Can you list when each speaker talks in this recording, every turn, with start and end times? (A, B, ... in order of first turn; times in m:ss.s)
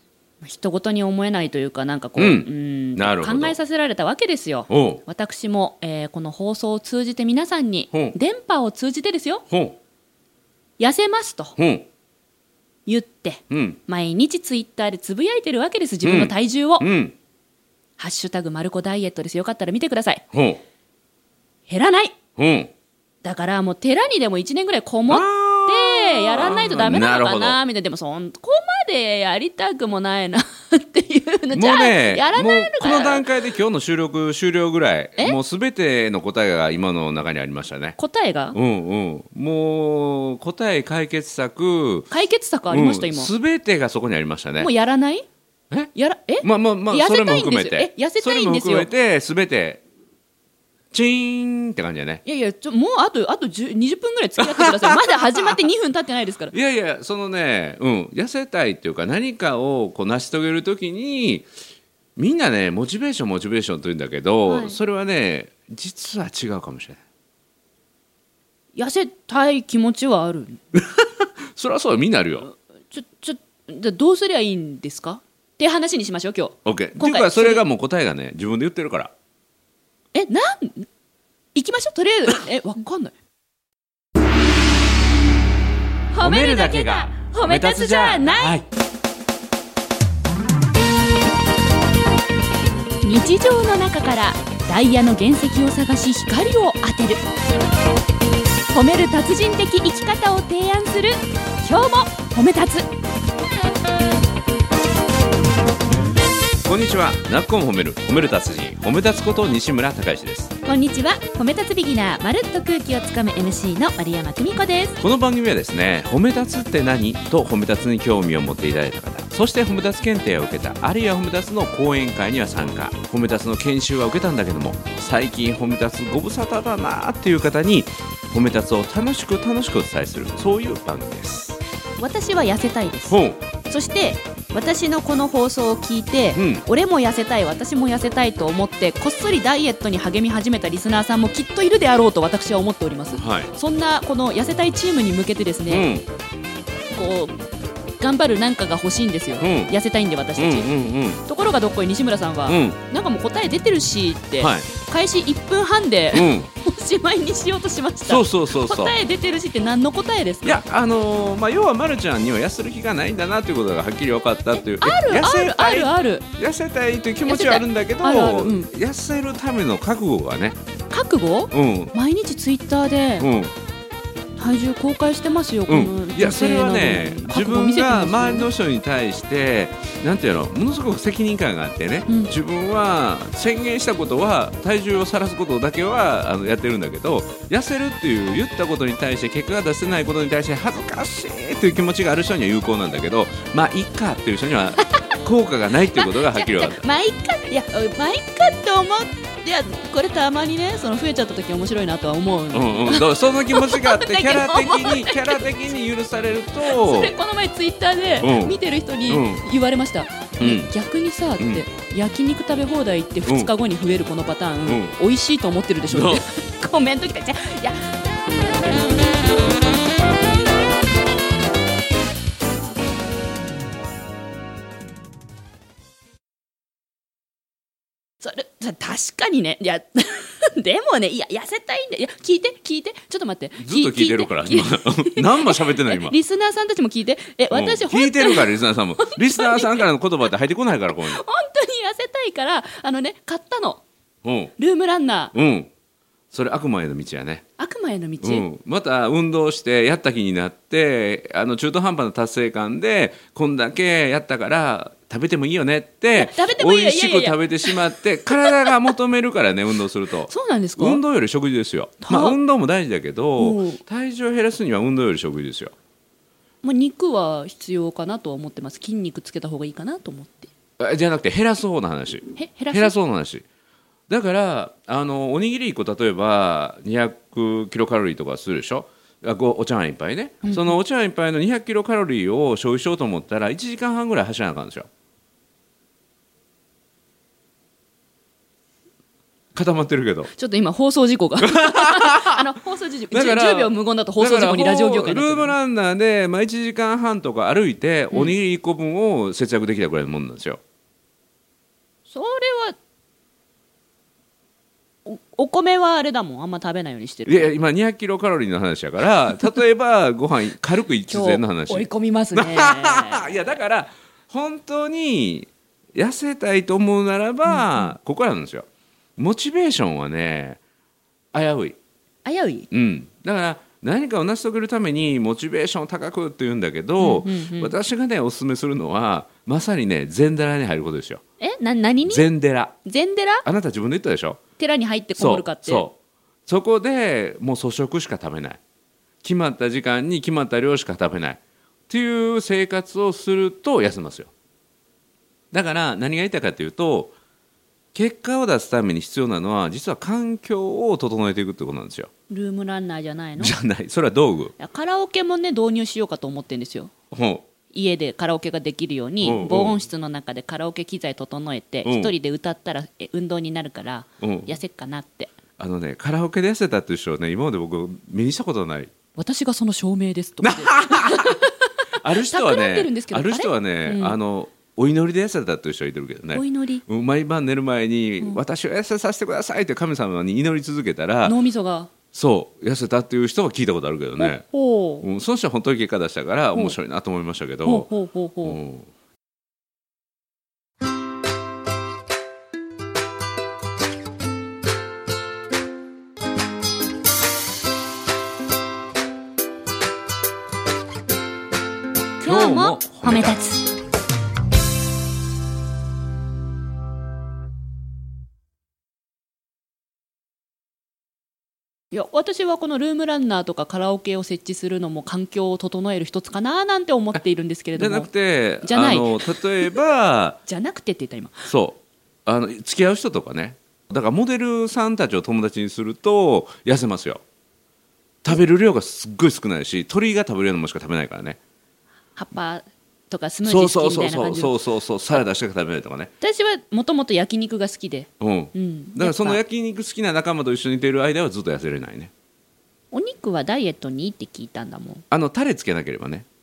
0:00.4-0:09.4 A
0:02.2-0:03.6 B
0:04.7-0:05.0 B
0:09.5-0:09.8 B
0:10.8-0:11.6 A
0:11.6-0:11.9 B
0:12.9-0:16.9 A
0:13.5-0:13.8 B
0:16.0-0:17.2 B
0:18.0-0:20.2 A
0:20.3-0:20.6 B
0:21.7-0:22.2 A
0:22.4-0:22.7 B
0:23.2-0:33.3 A
0:25.1-0:27.6 B
0:31.5-0:38.0 B
0:38.0-0:38.6 A
0:38.5-0:42.1 B
0:42.1-0:43.3 A
0:42.7-0:44.7 B
0:44.6-0:45.3 A
0:45.7-0:49.8 B
0:46.0-0:48.9 A
0:50.9-0:52.2 B
0:52.2-0:56.5 A
0:54.4-0:55.5 B
0:56.5-1:01.5 B
1:02.2-1:07.0 B
1:04.5-1:04.8 A
1:08.8-1:10.6 A
1:10.7-1:12.5 B
1:12.4-1:17.6 A
1:16.6-1:19.1 B
1:20.1-1:20.9 A
1:21.6-1:23.2 A
1:26.1-1:28.6 A
1:26.2-1:28.6 B
1:33.0-1:37.2 A
1:38.7-1:42.9 A
1:46.6-1:50.5 B
1:50.6-1:55.0 A
1:55.0-2:11.6 B
2:12.0-2:25.9 A
2:13.1-2:13.4 B
2:16.4-2:16.6 B
2:23.1-2:23.5 B
2:25.7-2:26.0 B
2:27.0-2:27.4 A
2:28.0-2:40.6 A
2:29.4-2:29.7 B
2:30.4-2:31.2 B
2:32.5-2:32.8 B
2:34.4-2:34.7 B
2:36.1-2:36.5 B
2:38.1-2:39.0 B
2:40.4-2:50.6 B
2:44.6-2:46.2 A
2:47.3-2:48.7 A
2:50.9-2:53.3 A
2:51.5-2:51.9 B
2:53.2-2:53.5 B
2:54.4-2:58.5 A
2:55.7-3:16.8 B
3:02.1-3:02.3 A
3:16.0-3:25.4 A
3:22.5-3:27.1 B
3:26.6-3:38.9 A
3:28.2-3:28.6 B
3:29.1-3:29.4 B
3:30.4-3:30.7 B
3:31.4-3:31.6 B
3:33.3-3:33.5 B
3:34.7-3:35.0 B
3:35.9-3:36.2 B
3:48.2-3:59.9 A
3:53.6-3:56.2 B
3:57.5-4:01.2 B
4:01.0-4:03.8 A
4:04.2-4:04.5 B
4:04.6-4:05.3 A
4:05.3-4:05.7 B
4:06.3-4:07.4 B
4:07.6-4:08.5 A
4:08.2-4:25.7 B
4:16.2-4:17.8 A
4:18.3-4:18.7 A
4:20.3-4:21.0 A
4:22.0-4:22.4 A
4:23.4-4:23.8 A
4:26.6-4:30.5 A
4:30.8-4:33.4 B
4:32.4-4:33.0 A
4:34.1-4:44.9 B
4:40.4-4:40.8 A
4:49.5-4:50.3 B
4:50.4-4:55.6 A
4:51.4-4:52.5 B
4:53.1-5:00.6 B
5:02.1-5:02.8 A
5:05.1-5:07.5 A
5:07.3-5:18.7 B
5:11.1-5:13.4 A
5:17.5-5:17.9 A
5:19.2-5:20.6 B
5:21.3-5:21.8 B
5:22.2-5:22.7 A
5:22.7-5:31.2 B
5:27.0-5:27.7 A
5:31.4-5:32.3 A
5:32.1-5:32.8 B
5:32.8-5:33.5 A
5:33.4-5:34.4 B
5:34.6-5:35.8 A
5:35.2-5:38.6 B
5:39.2-5:44.3 B
5:45.5-5:47.2 B
5:47.9-5:52.1 B
5:52.3-5:53.5 A
5:53.4-5:54.6 B
5:54.6-5:56.9 A
5:57.1-5:57.4 B
5:57.7-6:05.3 A
5:59.2-5:59.8 B
6:01.8-6:02.1 B
6:04.2-6:04.5 B
6:05.6-6:08.9 B
6:09.2-6:14.2 A
6:10.4-6:11.5 B
6:12.0-6:21.4 B
6:16.3-6:16.8 A
6:21.2-6:21.9 A
6:22.1-6:24.4 B
6:24.2-6:25.1 A
6:25.0-6:27.9 B
6:27.6-6:28.6 A
6:28.4-6:28.9 B
6:42.2-6:43.4 B
6:42.2-6:43.6 A
6:51.9-6:58.1 A
6:57.8-7:00.4 B
6:58.6-6:59.8 A
7:00.5-7:01.5 A
7:01.5-7:07.2 B
7:08.2-7:11.4 B
7:12.2-7:14.6 A
7:13.4-7:16.1 B
7:16.2-7:19.4 A
7:18.2-7:22.1 B
7:22.9-7:25.0 A
7:25.1-7:26.3 B